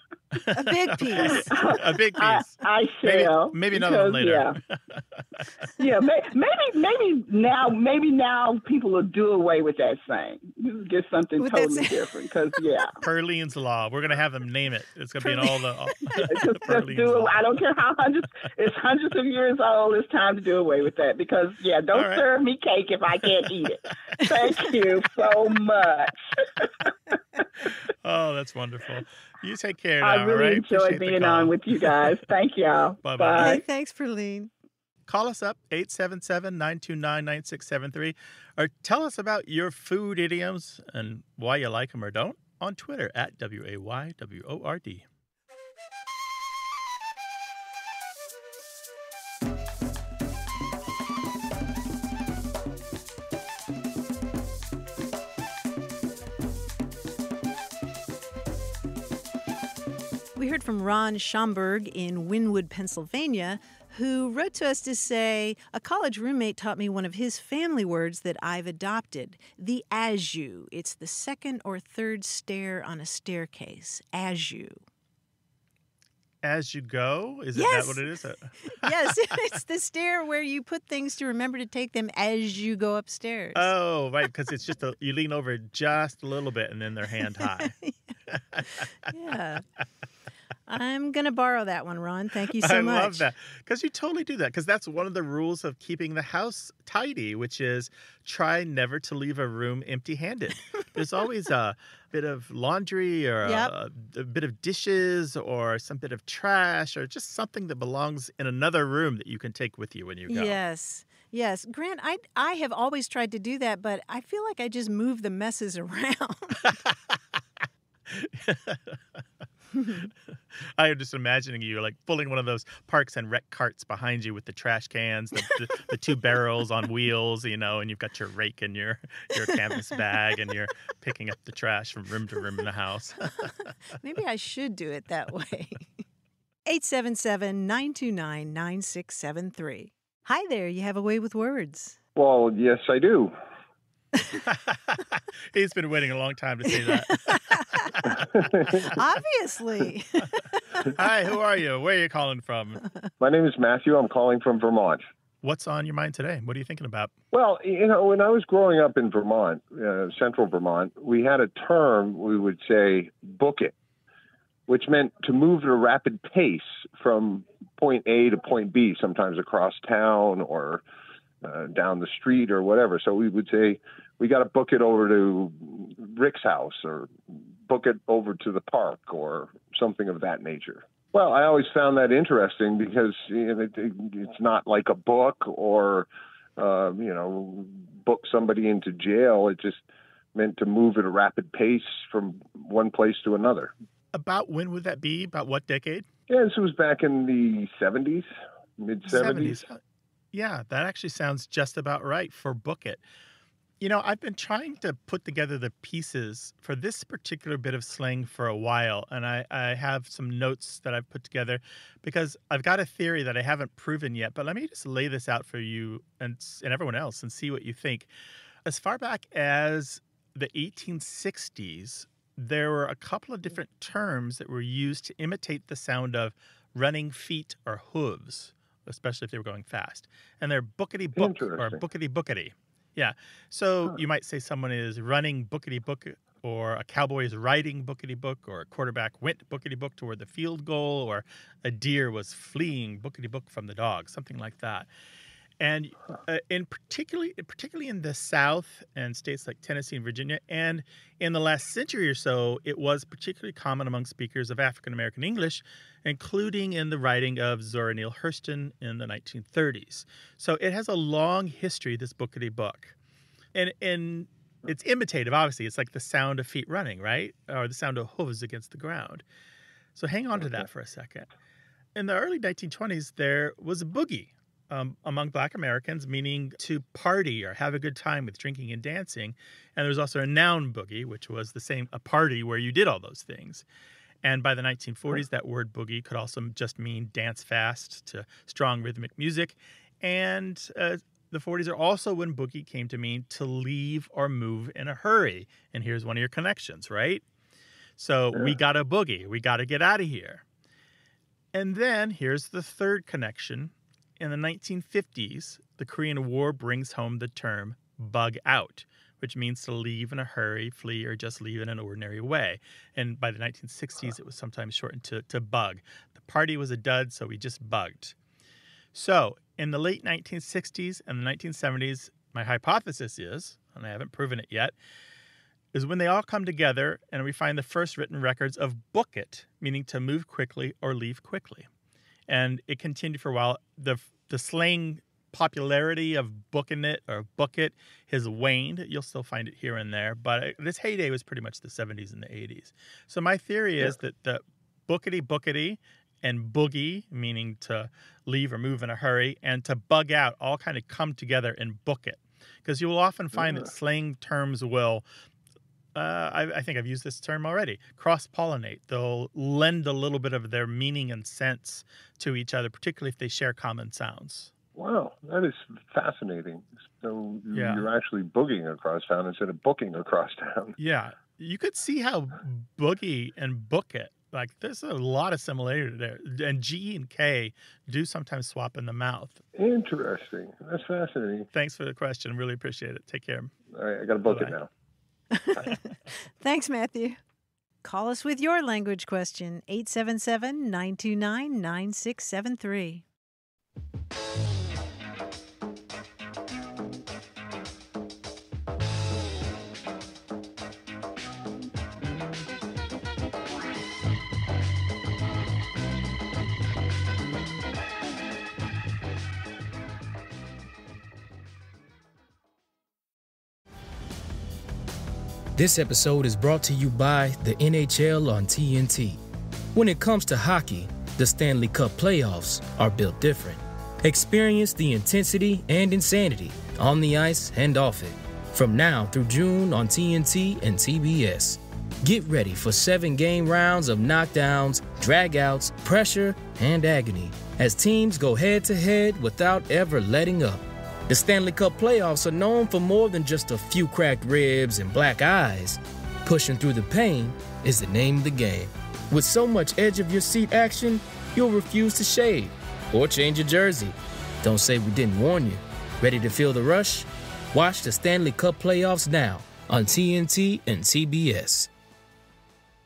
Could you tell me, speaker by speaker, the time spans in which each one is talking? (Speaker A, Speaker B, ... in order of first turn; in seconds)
Speaker A: 0.3-5.7, 13.0-17.4, 21.9-22.2, 28.0-31.6, 33.0-33.6, 35.1-45.0, 76.4-78.9, 83.5-87.8, 88.3-88.9, 92.5-110.6, 116.6-117.2, 118.1-119.2, 119.9-133.7, 144.4-148.2, 150.9-152.8, 155.4-157.1, 194.1-196.1, 199.1-199.8, 200.3-203.0, 203.8-218.1, 218.7-244.9, 245.6-262.9, 263.6-269.2, 269.9-271.3, 271.9-283.6, 284.2-297.2, 298.0-300.4, 301.5-318.1, 318.9-324.7, 325.7-331.7, 332.3-355.0, 355.9-364.5, 367.5-367.9, 370.8-379.4, 381.5-383.5, 384.2-384.6
Speaker B: 0.5-1.5, 11.4-12.1, 15.2-15.6, 33.4-34.5, 60.4-74.8, 77.5-78.1, 78.6-83.7, 87.4-87.9, 88.8-89.6, 90.7-93.3, 103.4-103.7, 110.3-116.7, 119.7-120.0, 134.0-136.0, 136.7-142.0, 146.8-147.9, 148.9-151.1, 385.3-385.8, 386.4-387.2, 387.8-393.0
Speaker C: 1.3-4.6, 5.8-12.9, 16.2-27.4, 30.0-33.6
Speaker D: 142.2-143.3, 148.1-148.9, 153.2-155.0, 157.3-163.7, 164.7-170.8, 171.4-193.7, 196.3-198.3, 198.8-199.7, 231.1-231.8, 353.3-353.7, 364.7-370.8, 379.6-381.5, 383.7-384.7
Speaker E: 415.6-419.2, 419.7-461.7